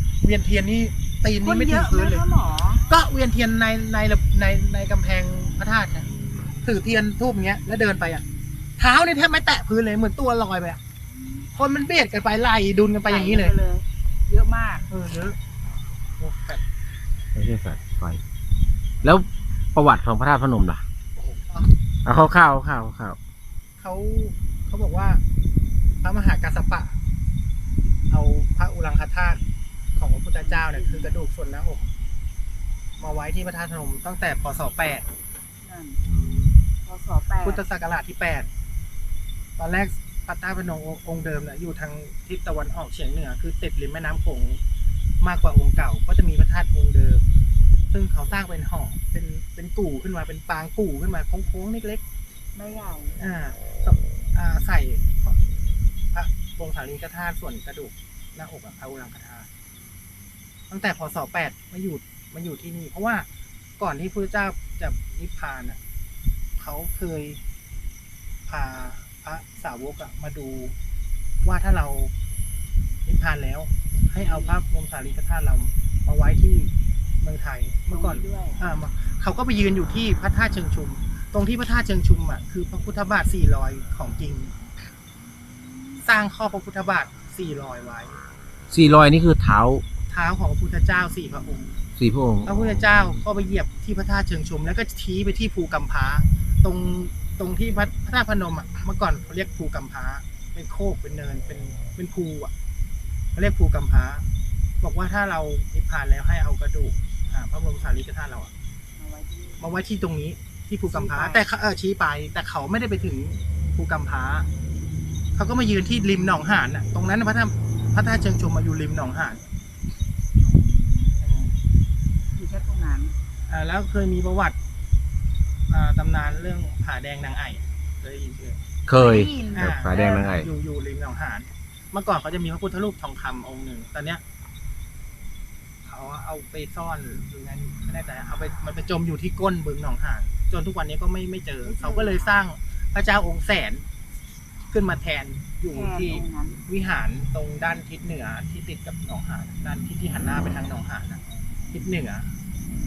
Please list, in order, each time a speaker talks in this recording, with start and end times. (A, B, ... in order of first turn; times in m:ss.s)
0:00.2-0:02.2 A
0:01.4-0:02.9 B
0:02.8-0:06.1 A
0:06.6-0:08.2 A
0:08.8-0:10.8 A
0:11.1-0:11.5 B
0:11.6-0:13.5 A
0:13.0-0:14.8 B
0:14.9-0:15.4 A
0:16.2-0:16.6 A
0:17.3-0:18.2 C
0:19.0-0:20.8 C
0:21.2-0:21.7 A
0:22.0-0:23.2 C
0:23.8-0:25.2 A
0:26.0-0:27.0 A
0:28.1-0:29.4 A
0:30.0-0:31.9 A
0:30.4-0:31.1 B
0:33.0-0:35.0 A
0:35.6-0:36.0 B
0:36.0-0:36.6 C
0:36.8-0:37.6 B
0:37.4-0:38.5 A
0:39.6-0:44.6 A
0:45.2-0:47.2 A
0:47.9-0:52.0 A
0:52.5-0:53.2 B
0:53.2-0:55.4 A
0:56.1-0:59.5 A
1:00.7-1:03.2 A
1:03.8-1:05.8 A
1:06.6-1:07.4 A
1:08.5-1:10.7 A
1:11.4-1:12.1 A
1:13.0-1:24.5 A
1:14.1-1:14.6 B
1:17.9-1:18.6 B
1:25.6-1:26.0 B
1:26.0-1:28.2 A
1:28.7-1:29.8 C
1:30.1-1:31.7 A
1:32.0-1:33.2 C
1:32.4-1:42.5 A
1:43.4-1:44.2 A
1:44.8-1:48.5 A
1:49.0-1:49.7 B
1:49.6-1:54.5 A
1:50.9-1:51.4 B
1:55.3-1:59.4 A
2:00.4-2:01.2 B
2:01.2-2:01.5 A
2:02.3-2:03.1 B
2:03.5-2:04.6 A
2:05.7-2:08.6 A
2:08.9-2:10.5 C
2:09.0-2:10.3 B
2:09.5-2:14.2 A
2:15.8-2:23.8 A
2:21.6-2:22.4 B
2:24.7-2:31.2 A
2:25.7-2:26.6 B
2:31.7-2:32.3 A